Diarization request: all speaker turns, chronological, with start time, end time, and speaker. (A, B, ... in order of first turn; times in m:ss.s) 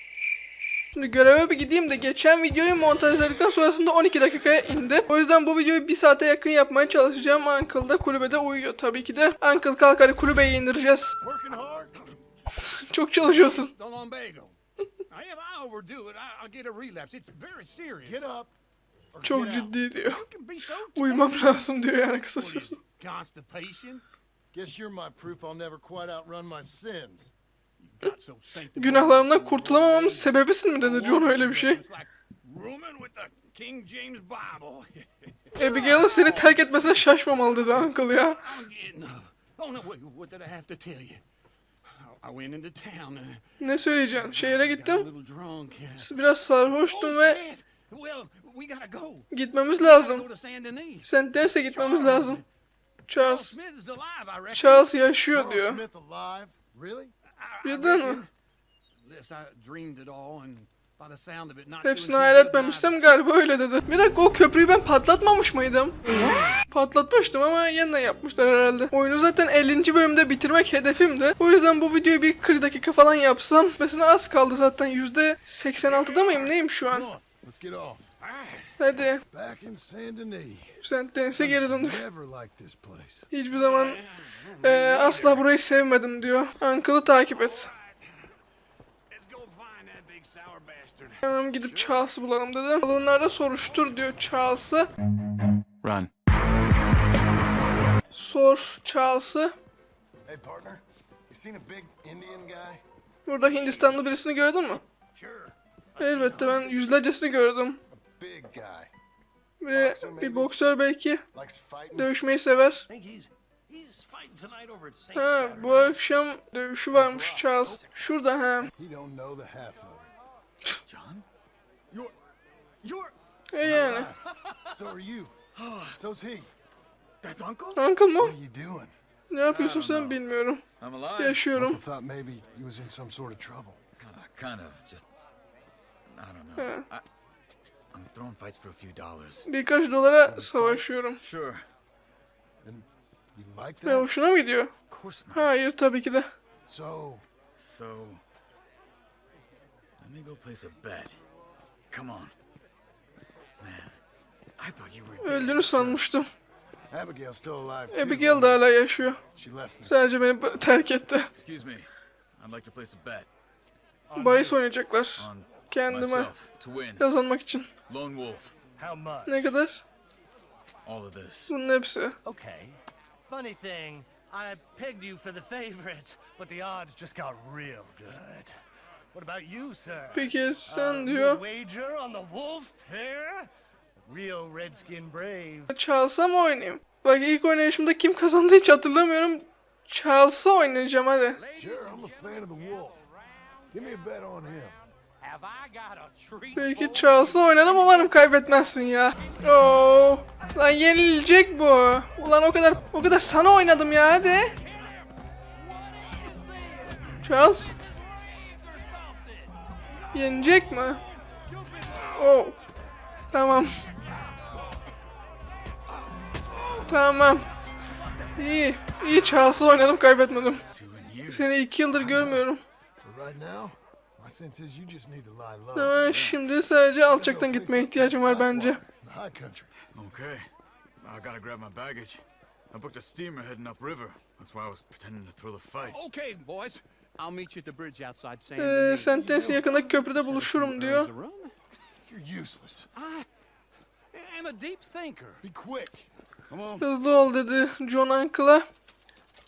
0:01.0-0:11.2 A
0:11.2-0:12.2 B
0:12.6-0:13.7 A
0:13.2-0:14.6 C
0:15.1-0:18.3 C
0:18.0-0:18.5 B
0:19.1-0:19.8 B
0:19.2-0:20.2 A
0:20.0-0:21.7 C
0:21.0-0:22.8 A
0:22.4-0:24.0 C
0:24.5-0:27.3 B
0:27.8-0:36.9 C
0:28.8-0:31.8 A
0:35.5-0:38.6 A
0:38.1-0:41.2 C
0:41.9-0:43.4 C
0:43.6-0:45.1 A
0:44.1-0:46.1 C
0:46.0-0:47.4 A
0:46.7-0:52.4 C
0:49.3-0:50.3 A
0:51.0-0:52.4 A
0:53.1-0:53.6 A
0:53.2-0:55.1 C
0:54.5-0:55.8 A
0:55.3-0:57.1 B
0:57.4-0:58.3 C
0:57.6-0:58.2 A
0:59.0-1:03.0 C
1:01.8-1:06.0 A
1:06.7-1:17.1 A
1:15.9-1:16.5 C
1:16.8-1:18.1 B
1:18.2-1:18.7 C
1:18.8-1:19.2 A
1:19.3-1:20.8 B
1:20.8-1:22.0 A
1:21.4-1:23.3 B
1:23.3-1:24.0 A
1:23.5-1:25.4 C
1:24.6-1:27.7 A
1:27.2-1:28.1 C
1:29.1-1:32.0 C
1:31.2-1:34.9 A
1:35.8-1:36.1 D
1:38.1-1:39.5 A
1:40.2-1:42.8 B
1:43.3-1:44.8 A
1:43.5-1:44.0 C
1:45.1-1:46.9 C
1:46.0-1:47.8 A
1:47.9-1:48.9 B
1:49.6-1:51.2 A
1:49.7-1:50.5 B
1:51.3-1:52.1 B
1:52.0-1:52.8 A
1:52.9-1:56.0 E
1:55.1-1:58.7 A
1:58.8-2:00.1 B
2:00.9-2:01.2 D
2:02.8-2:03.1 D
2:03.5-2:04.1 A
2:03.6-2:04.2 B
2:04.7-2:05.4 B
2:05.6-2:06.0 D
2:05.9-2:06.5 B
2:07.2-2:07.8 D
2:07.8-2:08.4 A
2:08.2-2:08.9 B
2:09.3-2:10.6 A
2:09.4-2:10.2 D
2:10.8-2:11.5 D
2:11.2-2:11.8 A
2:11.5-2:13.8 B
2:14.0-2:15.1 D
2:16.1-2:17.0 D
2:16.6-2:16.8 A
2:17.9-2:19.5 D
2:19.5-2:21.2 A
2:20.3-2:21.6 D
2:20.5-2:21.0 B
2:22.6-2:24.1 B
2:23.9-2:24.7 A
2:24.9-2:25.6 D
2:25.3-2:26.3 A
2:26.7-2:27.2 B
2:27.6-2:28.2 D
2:30.0-2:31.2 D
2:31.9-2:32.3 D
2:33.6-2:34.0 D
2:34.6-2:36.0 D
2:35.2-2:36.3 A
2:36.9-2:38.6 B
2:37.9-2:39.2 A
2:39.4-2:40.0 B
2:39.8-2:41.3 A
2:41.3-2:43.3 D
2:44.1-2:44.6 E
2:44.2-2:46.3 A
2:45.2-2:47.0 D
2:47.0-2:47.7 A
2:47.9-2:48.6 D
2:48.8-2:49.4 E
2:49.3-2:49.8 A
2:50.8-2:51.5 D
2:51.5-2:52.2 A
2:52.2-2:58.5 E
2:59.1-3:03.5 E
3:00.1-3:01.4 A
3:04.0-3:05.7 E
3:05.7-3:11.4 A
3:11.4-3:13.8 C
3:11.6-3:13.0 B
3:13.7-3:14.8 B
3:15.2-3:18.1 C
3:16.6-3:24.6 A
3:24.6-3:25.1 C
3:25.7-3:29.5 C
3:27.2-3:27.7 A
3:30.1-3:32.2 C
3:30.1-3:31.0 A
3:32.1-3:32.6 A
3:33.3-3:33.7 A
3:34.1-3:34.6 C
3:36.3-3:36.8 C
3:36.8-3:37.5 A
3:38.0-3:38.4 C
3:38.4-3:40.6 A
3:40.7-3:42.4 D
3:41.3-3:42.6 A
3:42.1-3:42.4 B
3:43.0-3:46.4 B
3:45.8-3:48.8 A
3:47.1-3:49.7 B
3:49.9-3:50.5 D
3:51.0-3:56.0 D
3:55.8-4:01.5 C
3:58.6-4:01.1 A
4:02.1-4:02.9 B
4:03.0-4:03.3 C
4:04.1-4:05.4 C
4:05.4-4:06.1 B
4:06.5-4:06.9 C
4:06.8-4:08.7 A